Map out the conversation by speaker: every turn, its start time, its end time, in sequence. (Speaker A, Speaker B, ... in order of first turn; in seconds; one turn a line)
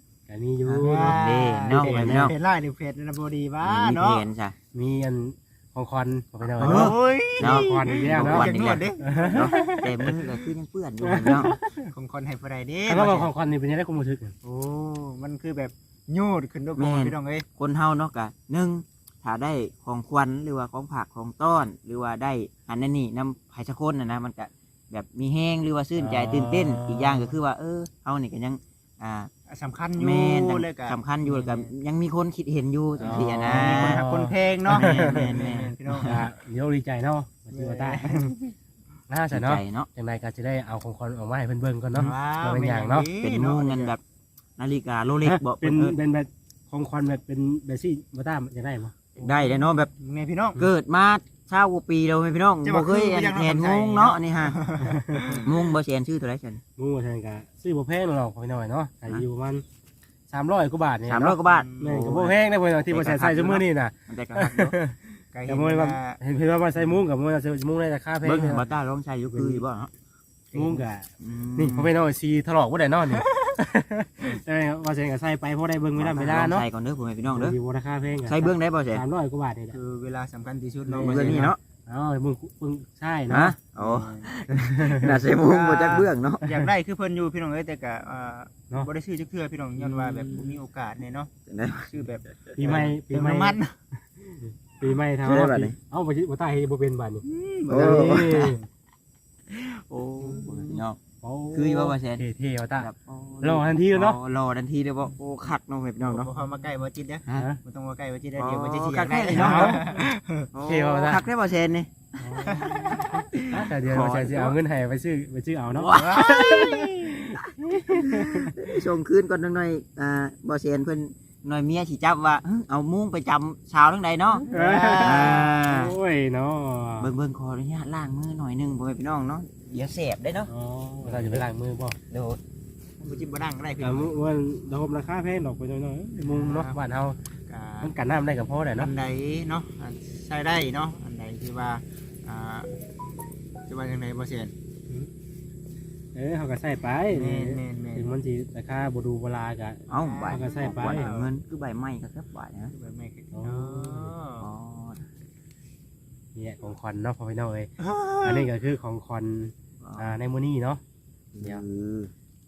Speaker A: 0.3-2.3
Speaker B: 0.7-4.2
Speaker C: 1.0-2.3
Speaker C: 3.6-4.5
Speaker A: 4.7-10.2
Speaker B: 6.6-9.8
Speaker C: 6.6-11.5
Speaker A: 11.0-11.9
Speaker B: 11.8-13.3
Speaker A: 12.9-14.3
Speaker B: 14.4-17.4
Speaker C: 16.8-29.3
Speaker A: 25.9-27.3
Speaker B: 29.5-31.7
Speaker C: 30.0-34.0
Speaker A: 33.0-38.3
Speaker B: 33.0-36.2
Speaker C: 34.7-36.2
Speaker B: 37.5-38.5
Speaker A: 39.1-43.1
Speaker C: 39.3-39.9
Speaker B: 41.9-43.9
Speaker C: 43.2-44.0
Speaker C: 44.6-46.0
Speaker A: 45.2-48.9
Speaker C: 49.2-49.9
Speaker B: 49.2-50.6
Speaker C: 50.6-54.6
Speaker B: 52.6-55.5
Speaker A: 54.8-55.5
Speaker C: 55.4-56.6
Speaker A: 56.8-59.6
Speaker A: 60.3-68.7
Speaker C: 61.0-62.3
Speaker B: 61.4-62.0
Speaker C: 62.9-64.7
Speaker B: 65.3-66.2
Speaker C: 68.2-69.9
Speaker A: 69.3-69.6
Speaker B: 70.5-70.8
Speaker A: 70.5-76.6
Speaker C: 71.2-71.9
Speaker B: 73.1-73.5
Speaker C: 76.0-77.5
Speaker A: 77.3-79.8
Speaker C: 78.2-79.0
Speaker B: 79.7-81.5
Speaker A: 80.9-83.5
Speaker C: 81.0-81.6
Speaker C: 83.3-86.6
Speaker B: 83.8-84.3
Speaker A: 84.5-85.2
Speaker B: 85.3-91.3
Speaker A: 89.8-90.6
Speaker C: 91.5-91.9
Speaker B: 91.8-93.7
Speaker A: 92.6-93.6
Speaker A: 94.2-98.6
Speaker C: 95.2-95.8
Speaker B: 97.2-98.6
Speaker C: 97.7-98.6
Speaker C: 99.5-101.0
Speaker A: 100.2-102.9
Speaker C: 101.5-102.2
Speaker C: 102.8-106.3
Speaker A: 103.4-104.2
Speaker B: 106.0-110.5
Speaker C: 108.4-109.8
Speaker A: 109.4-110.0
Speaker C: 110.5-114.6
Speaker A: 110.6-111.2
Speaker A: 112.2-112.7
Speaker B: 112.4-113.2
Speaker A: 113.5-118.7
Speaker C: 115.7-124.4
Speaker B: 115.9-116.2
Speaker A: 124.3-127.1
Speaker B: 124.5-125.5
Speaker C: 125.0-125.9
Speaker C: 127.0-131.4
Speaker A: 130.5-132.0
Speaker C: 132.1-132.4
Speaker B: 133.0-134.1
Speaker A: 133.8-137.2
Speaker B: 136.2-136.8
Speaker B: 137.5-137.9
Speaker A: 137.8-138.9
Speaker B: 138.8-142.7
Speaker B: 143.7-144.5
Speaker A: 146.1-151.1
Speaker B: 147.1-148.1
Speaker C: 149.9-152.7
Speaker B: 150.0-151.3
Speaker B: 152.7-154.4
Speaker A: 153.3-154.1
Speaker C: 154.4-155.0
Speaker A: 156.3-157.7
Speaker B: 157.8-158.5
Speaker A: 158.2-160.8
Speaker C: 159.8-160.1
Speaker C: 161.3-162.1